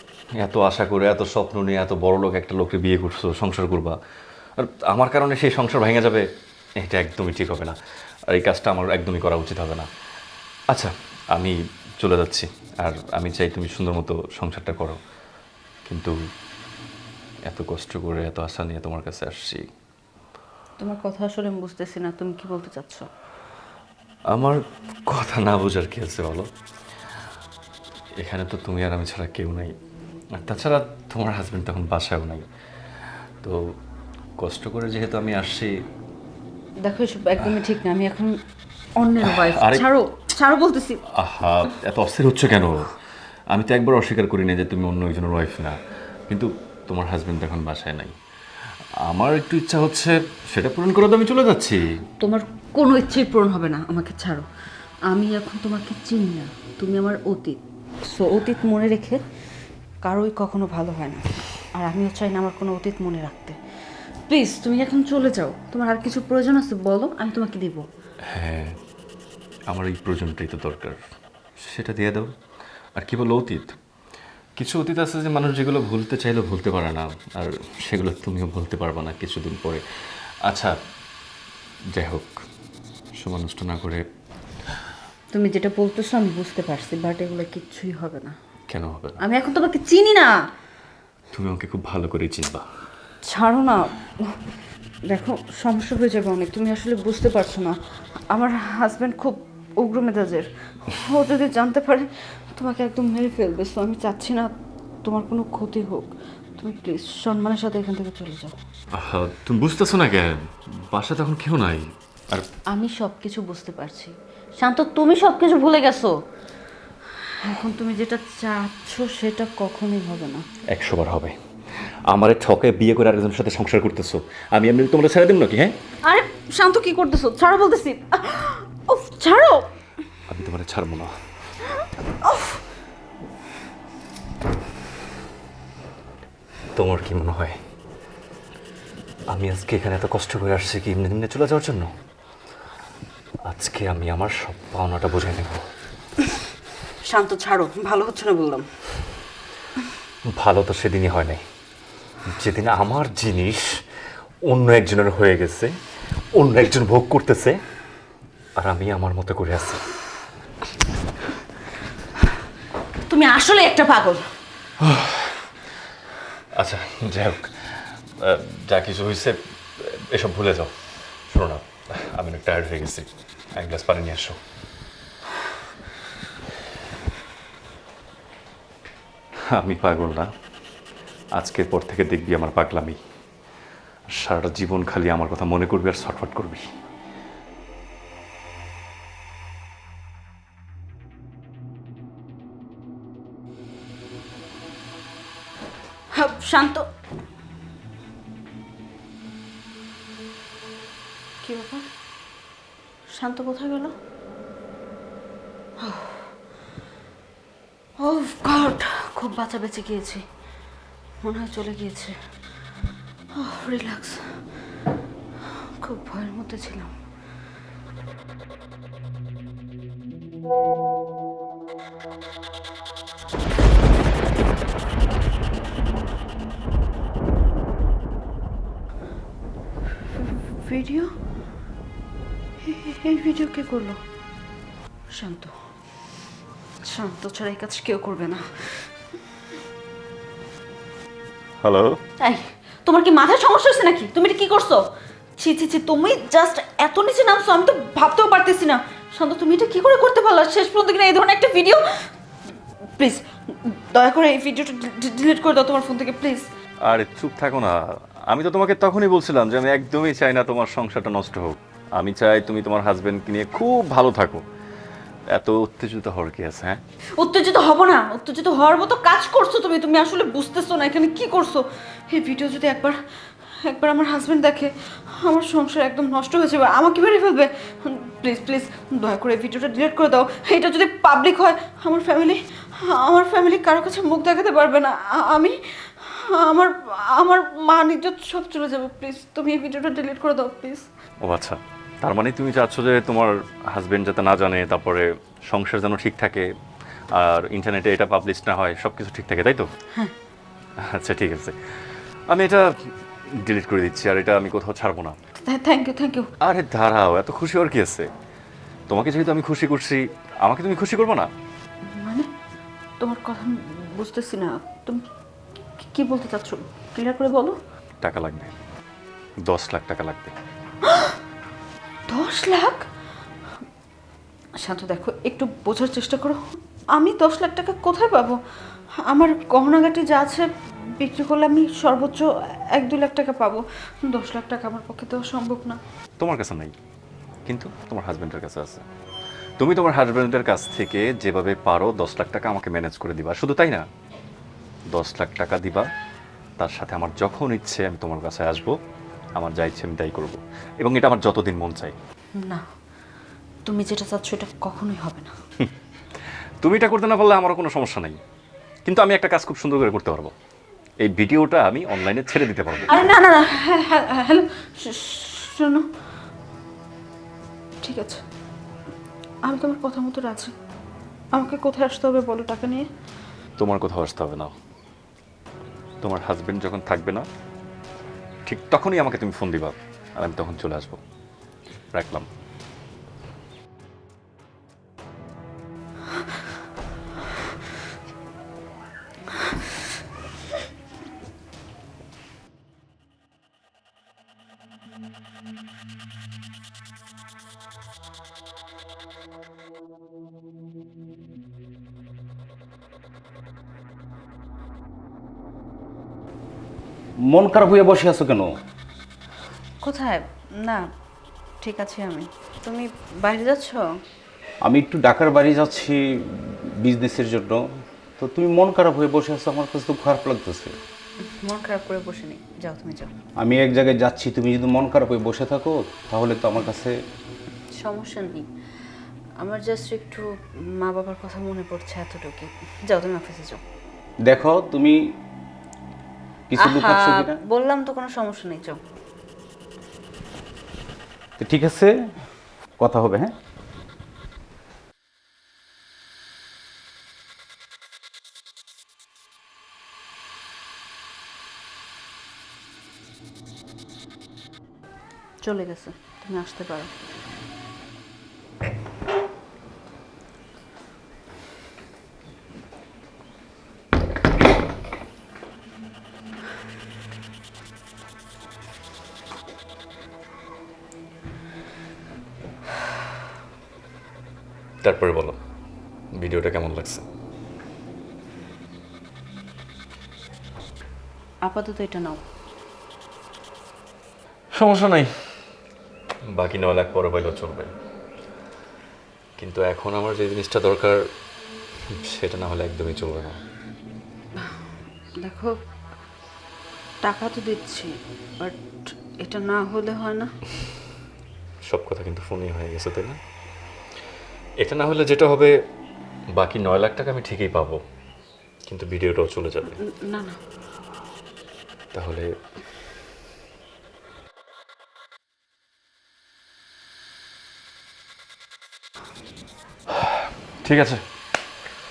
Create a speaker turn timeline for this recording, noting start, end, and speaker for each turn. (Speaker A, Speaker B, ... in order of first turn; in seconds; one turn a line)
Speaker A: 0.4-4.0
Speaker A: 4.6-6.2
Speaker A: 6.8-7.8
Speaker A: 8.3-9.9
Speaker A: 10.7-15.0
Speaker A: 15.8-16.1
Speaker A: 17.5-19.6
Speaker B: 20.8-23.1
Speaker A: 24.3-26.5
Speaker A: 28.2-29.7
Speaker A: 30.3-32.5
Speaker A: 33.4-33.7
Speaker A: 34.4-35.8
Speaker B: 36.8-38.4
Speaker B: 39.0-41.0
Speaker A: 39.2-39.9
Speaker A: 41.1-42.9
Speaker A: 43.5-45.8
Speaker A: 46.3-48.1
Speaker A: 49.0-51.9
Speaker B: 52.2-54.5
Speaker B: 55.1-59.2
Speaker B: 60.0-63.6
Speaker B: 64.3-67.8
Speaker A: 68.3-68.8
Speaker A: 69.7-71.0
Speaker A: 71.6-72.3
Speaker A: 73.0-73.8
Speaker A: 74.5-80.7
Speaker A: 81.9-82.4
Speaker A: 83.1-84.0
Speaker B: 85.3-88.3
Speaker A: 88.7-89.2
Speaker B: 89.2-90.4
Speaker A: 91.3-92.7
Speaker B: 93.2-94.4
Speaker B: 95.1-97.8
Speaker B: 98.3-108.5
Speaker A: 108.9-112.5
Speaker B: 112.7-116.2
Speaker B: 117.4-120.5
Speaker A: 120.7-121.4
Speaker A: 122.1-125.8
Speaker B: 126.0-129.7
Speaker A: 130.3-131.1
Speaker B: 132.2-132.6
Speaker A: 136.7-137.6
Speaker A: 139.3-141.9
Speaker A: 143.4-145.6
Speaker B: 147.0-148.7
Speaker A: 150.3-151.4
Speaker A: 152.3-153.8
Speaker A: 154.4-155.7
Speaker A: 156.3-157.6
Speaker A: 158.6-159.8
Speaker B: 163.1-164.3
Speaker A: 164.8-165.3
Speaker A: 166.5-170.7
Speaker A: 171.3-174.4
Speaker A: 179.5-180.3
Speaker A: 181.3-183.0
Speaker A: 184.1-186.6
Speaker B: 196.1-196.9
Speaker B: 201.4-201.8
Speaker B: 203.1-203.9
Speaker B: 205.8-206.3
Speaker B: 208.0-210.2
Speaker B: 211.2-212.2
Speaker B: 213.3-214.4
Speaker B: 215.4-216.9
Speaker B: 230.0-231.2
Speaker B: 232.6-234.0
Speaker B: 235.1-235.6
Speaker B: 236.8-238.9
Speaker A: 241.6-242.0
Speaker B: 242.2-252.1
Speaker B: 253.0-256.5
Speaker A: 256.8-264.4
Speaker A: 265.3-266.8
Speaker B: 267.2-273.0
Speaker B: 273.6-290.9
Speaker A: 291.2-296.5
Speaker A: 297.1-299.7
Speaker A: 300.8-305.2
Speaker B: 305.4-306.3
Speaker A: 306.4-308.1
Speaker A: 308.9-311.3
Speaker B: 311.9-312.3
Speaker B: 313.0-315.0
Speaker B: 315.8-317.6
Speaker A: 318.0-318.5
Speaker A: 319.4-320.3
Speaker B: 320.8-321.2
Speaker B: 322.1-322.8
Speaker B: 324.6-326.4
Speaker B: 326.9-328.4
Speaker B: 329.1-335.8
Speaker A: 336.2-336.7
Speaker A: 337.4-338.8
Speaker A: 339.6-343.9
Speaker A: 344.9-345.9
Speaker A: 346.6-348.8
Speaker A: 349.4-351.9
Speaker B: 352.4-352.6
Speaker B: 353.6-355.3
Speaker A: 356.6-358.2
Speaker A: 358.9-360.3
Speaker A: 361.0-363.0
Speaker B: 362.9-365.9
Speaker B: 367.8-368.2
Speaker B: 369.4-370.5
Speaker B: 371.3-372.9
Speaker A: 373.6-374.5
Speaker A: 376.0-377.3
Speaker A: 378.4-381.0
Speaker A: 381.9-382.3
Speaker C: 407.2-408.5
Speaker B: 409.8-410.9
Speaker B: 411.6-413.8
Speaker C: 414.6-417.6
Speaker C: 418.2-420.7
Speaker B: 421.2-423.1
Speaker C: 423.4-426.9
Speaker B: 427.8-428.5
Speaker B: 429.4-433.6
Speaker C: 434.2-435.1
Speaker C: 436.5-437.4
Speaker B: 436.6-438.8
Speaker C: 441.4-441.9
Speaker C: 442.8-443.3
Speaker B: 455.4-456.9
Speaker A: 474.8-475.4
Speaker A: 476.1-477.1
Speaker B: 481.4-482.2
Speaker A: 484.5-485.3
Speaker A: 486.3-487.7
Speaker A: 489.4-491.1
Speaker A: 491.9-493.4
Speaker B: 494.4-494.7
Speaker B: 495.2-495.6
Speaker B: 497.0-500.3
Speaker A: 501.6-503.2
Speaker A: 504.6-505.5
Speaker A: 506.3-507.8
Speaker A: 508.6-509.8
Speaker B: 509.8-510.4
Speaker A: 511.9-512.3
Speaker A: 520.0-521.0